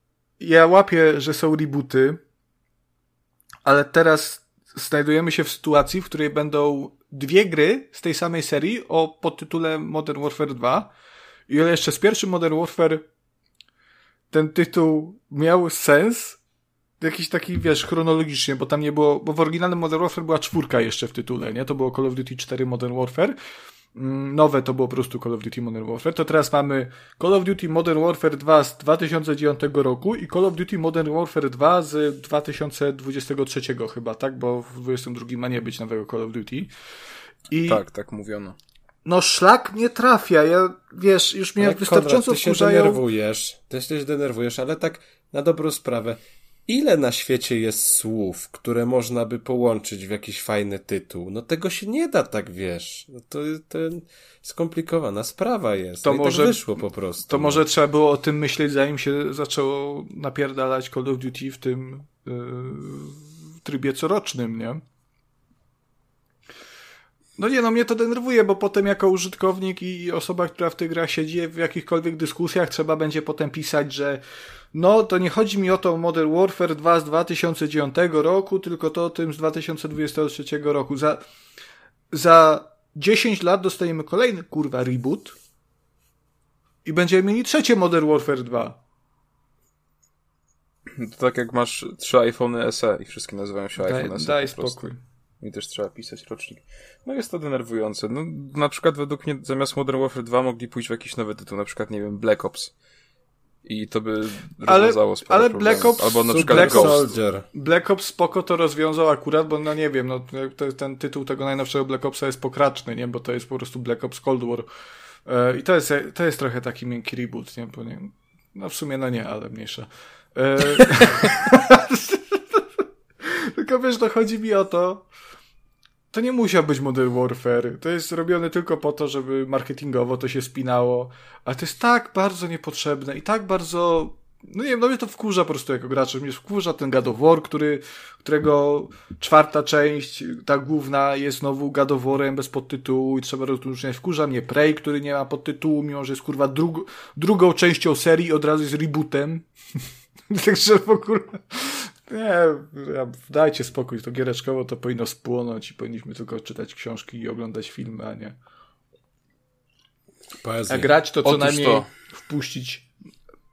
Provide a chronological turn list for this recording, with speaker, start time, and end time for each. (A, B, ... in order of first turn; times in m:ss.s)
0:00.4-0:02.2 A
0:03.6-0:10.9 A
0:11.5-0:13.1 A
0:14.3-0:16.4 A
0:17.0-0:23.4 A
0:23.9-0:36.7 A
0:37.5-0:37.8 A
0:37.6-0:38.6 B
0:39.0-0:43.0 A
0:41.6-0:57.7 C
0:56.0-0:56.7 A
0:57.2-1:04.8 A
1:07.4-1:14.2 A
1:14.7-1:21.2 A
1:22.1-1:25.4 A
1:26.8-1:28.8 A
1:30.9-1:34.9 B
1:33.8-1:35.0 A
1:35.4-1:42.7 B
1:43.6-1:47.0 B
1:44.6-1:54.7 A
1:46.3-1:47.5 C
1:55.2-2:02.6 A
2:03.2-2:05.1 A
2:06.1-2:29.5 A
2:30.3-2:38.4 A
2:40.4-2:40.9 C
2:40.7-2:42.9 A
2:41.2-2:41.9 B